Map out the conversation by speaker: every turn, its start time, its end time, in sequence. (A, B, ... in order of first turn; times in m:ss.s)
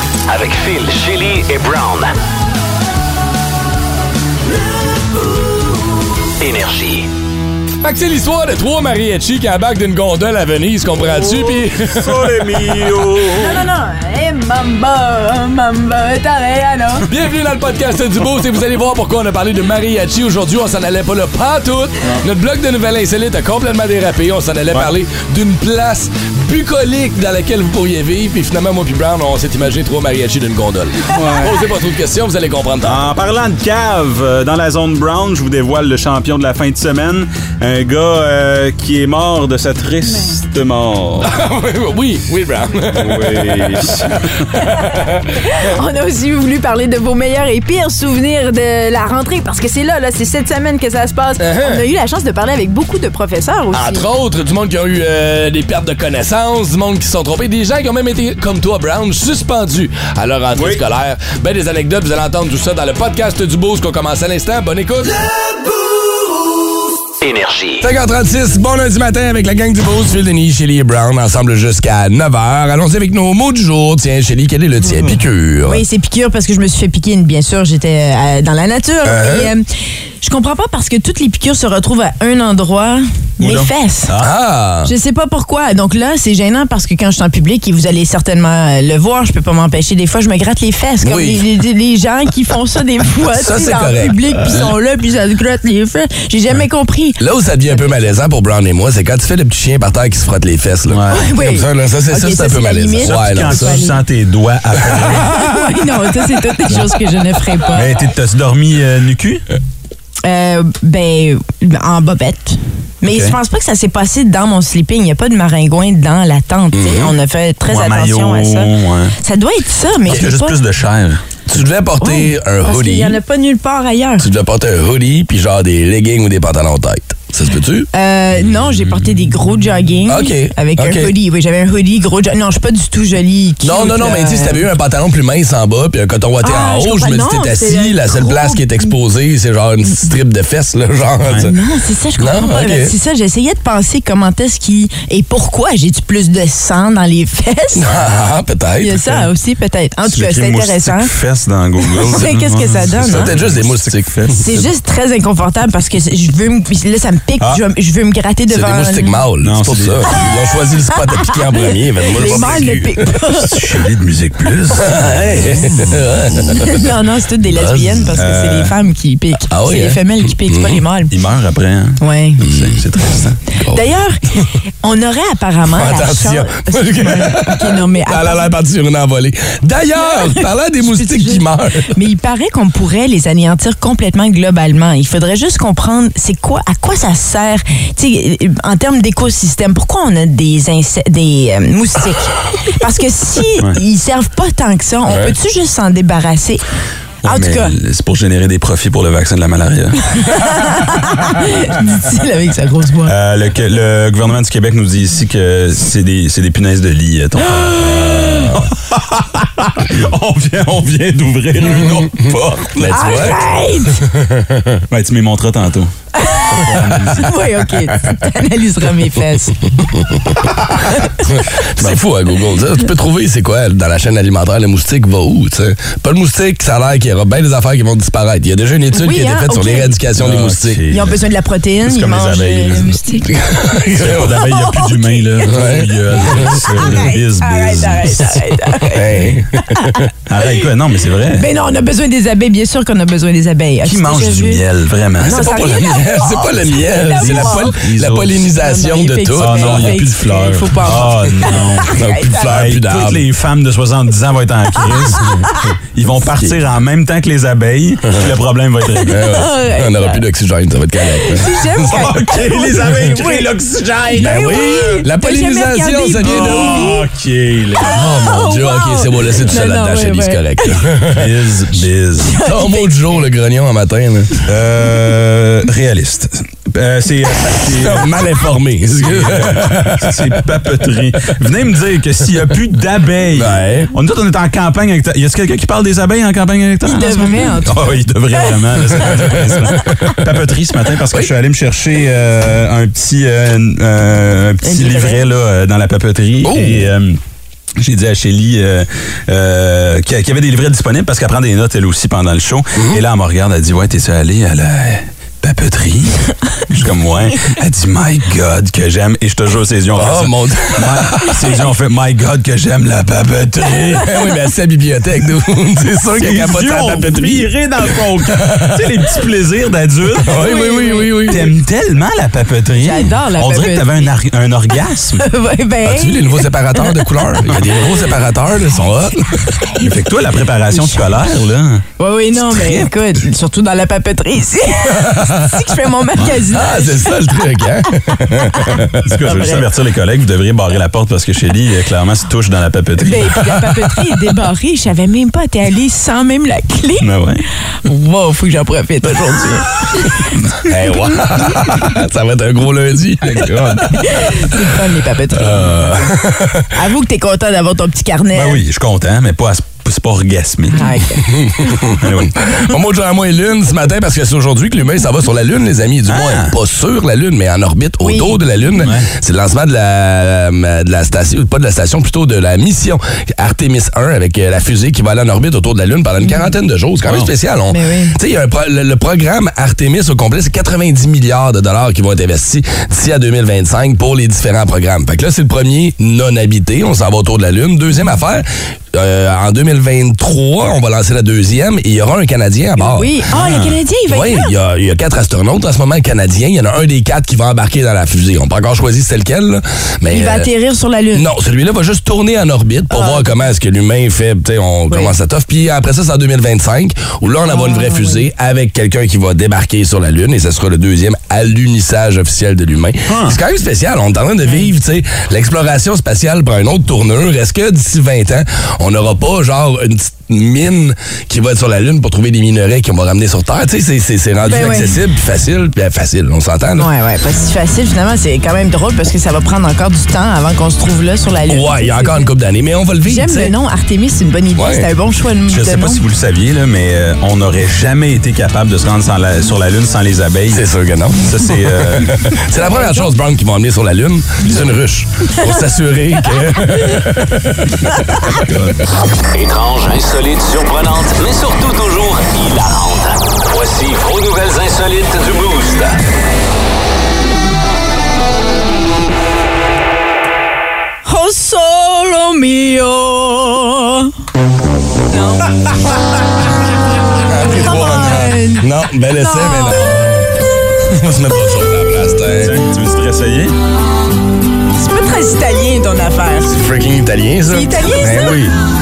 0:00.3-0:02.1 A
0:06.4-0:07.1 A
0:07.8-0:13.0 B
0:11.4-0:13.6 C
0:13.4-0:17.0 D
0:17.1-0:33.1 B
0:31.1-0:31.5 C
0:32.8-0:41.3 C
0:41.2-0:45.4 B
0:42.9-0:44.5 C
0:44.8-0:54.1 D
0:51.4-0:51.8 B
0:53.7-1:05.2 B
1:00.6-1:00.8 C
1:07.2-1:07.9 A
1:07.8-1:15.8 B
1:14.9-1:15.2 C
1:15.6-1:19.6 D
1:19.0-1:19.5 B
1:20.2-1:24.1 D
1:23.4-1:24.3 C
1:24.2-1:24.9 B
1:24.8-1:38.1 D
1:31.0-1:31.4 B
1:33.3-1:34.7 B
1:37.2-1:43.8 B
1:40.9-1:41.2 C
1:41.1-1:44.0 D
1:43.0-1:45.3 C
1:44.8-1:45.7 B
1:45.0-1:47.9 D
1:47.7-1:49.4 C
1:50.2-2:00.6 D
1:53.1-1:53.4 C
1:56.7-1:57.1 B
1:57.7-1:59.1 C
2:00.0-2:00.3 B
2:00.0-2:01.2 C
2:01.5-2:03.2 B
2:02.0-2:04.3 D
2:04.2-2:07.9 B
2:07.9-2:14.6 D
2:08.4-2:09.2 C
2:10.0-2:11.1 B
2:13.6-2:21.5 B
2:16.4-2:18.9 D
2:21.4-2:27.9 D
2:22.2-2:22.9 B
2:27.7-2:29.2 B
2:28.8-2:31.1 D
2:30.0-2:34.6 C
2:31.8-2:33.3 D
2:33.0-2:34.6 B
2:34.3-2:39.2 D
2:38.5-2:43.0 B
2:39.4-2:40.3 C
2:40.9-2:43.9 D
2:42.2-2:42.7 C
2:43.3-2:45.9 C
2:44.7-2:46.8 B
2:46.5-2:51.1 D
2:47.5-2:48.1 B
2:48.1-2:48.7 C
2:49.4-2:50.8 B
2:51.1-2:53.4 C
2:52.0-2:52.4 D
2:52.4-2:52.8 B
2:53.6-2:53.8 B
2:53.7-2:54.2 D
2:54.8-2:58.5 D
2:55.7-3:02.0 B
3:00.0-3:16.6 D
3:15.1-3:15.3 B
3:17.2-3:20.3 C
3:17.2-3:17.7 D
3:20.1-3:23.1 D
3:23.0-3:33.4 C
3:28.3-3:28.6 B
3:31.7-3:33.4 B
3:32.9-3:34.0 D
3:34.0-3:34.8 B
3:34.9-3:37.3 C
3:36.1-3:39.6 D
3:39.8-3:40.2 B
3:40.9-3:41.2 D
3:41.2-3:50.8 B
3:48.9-3:50.0 D
3:50.1-3:51.2 C
3:50.9-3:53.3 D
3:51.8-3:53.0 C
3:53.2-3:54.4 B
3:53.9-3:58.5 C
3:54.2-3:55.5 D
3:55.5-3:57.0 B
3:56.5-3:59.0 D
3:58.8-4:00.1 B
3:59.6-4:00.6 D
4:00.3-4:01.5 C
4:01.3-4:04.6 D
4:03.8-4:05.5 C
4:05.2-4:07.7 D
4:05.2-4:10.0 B
4:07.2-4:08.4 C
4:08.5-4:12.5 D
4:09.4-4:11.9 C
4:11.9-4:13.3 B
4:12.4-4:15.4 C
4:14.8-4:15.7 D
4:15.9-4:19.2 C
4:16.3-4:16.6 B
4:19.0-4:22.2 B
4:19.1-4:20.2 D
4:21.0-4:23.5 D
4:21.7-4:25.0 C
4:24.1-4:27.1 D
4:24.1-4:26.9 B
4:26.2-4:28.0 C
4:27.8-4:31.3 B
4:27.8-4:30.9 D
4:29.2-4:29.6 C
4:31.1-4:32.4 C
4:32.2-4:33.2 D
4:32.4-4:34.3 B
4:34.4-4:38.1 C
4:37.5-4:40.7 B
4:39.0-4:57.2 C
4:43.3-4:43.9 B
4:46.8-4:49.4 D
4:49.1-4:50.3 B
4:54.6-4:55.3 D
4:56.4-4:56.9 B
4:57.8-5:14.0 C
5:02.8-5:03.0 B
5:09.9-5:11.7 B
5:13.6-5:19.1 B
5:16.2-5:20.4 C
5:20.2-5:21.5 B
5:20.3-5:21.4 D
5:21.3-5:25.2 C
5:22.8-5:24.1 D
5:25.2-5:27.1 D
5:25.8-5:29.4 B
5:29.8-5:31.8 C
5:30.7-5:31.1 D
5:32.0-5:37.4 D
5:32.5-5:32.9 C
5:34.8-5:35.7 B
5:36.5-5:39.0 B
5:37.9-5:39.6 D
5:39.0-5:43.3 C
5:43.0-5:47.1 D
5:47.0-5:47.4 C
5:47.8-5:50.2 D
5:50.6-5:53.8 B
5:53.2-5:54.0 C
5:53.9-5:56.1 D
5:55.4-5:56.7 B
5:56.7-5:58.6 D
5:58.3-6:01.0 C
6:00.7-6:01.3 D
6:01.3-6:33.2 B
6:01.9-6:02.5 C
6:06.1-6:06.5 C
6:08.0-6:08.4 D
6:08.8-6:09.1 C
6:16.2-6:16.5 D
6:17.7-6:18.2 D
6:32.8-6:34.5 D
6:33.3-6:33.8 C
6:34.1-6:40.5 B
6:40.1-6:41.2 D
6:41.1-7:06.9 B
6:42.9-6:43.4 D
6:44.9-6:45.1 D
6:47.5-6:48.2 D
6:53.1-6:53.4 C
7:04.4-7:05.0 D
7:06.8-7:12.3 D
7:11.4-7:13.5 B
7:13.0-7:16.0 D
7:14.6-7:14.9 B
7:15.5-7:20.6 C
7:20.5-7:27.7 B
7:21.2-7:22.3 C
7:22.5-7:23.1 D
7:27.9-7:28.2 D
7:28.4-7:28.8 C
7:29.3-7:36.0 A
7:41.0-7:44.1 D
7:45.1-7:45.6 D
7:47.3-7:50.3 B
7:47.6-7:50.2 D
7:50.8-7:52.6 B
7:52.4-7:53.5 C
7:54.7-7:56.6 D
7:56.5-7:58.5 B
7:57.5-7:58.4 D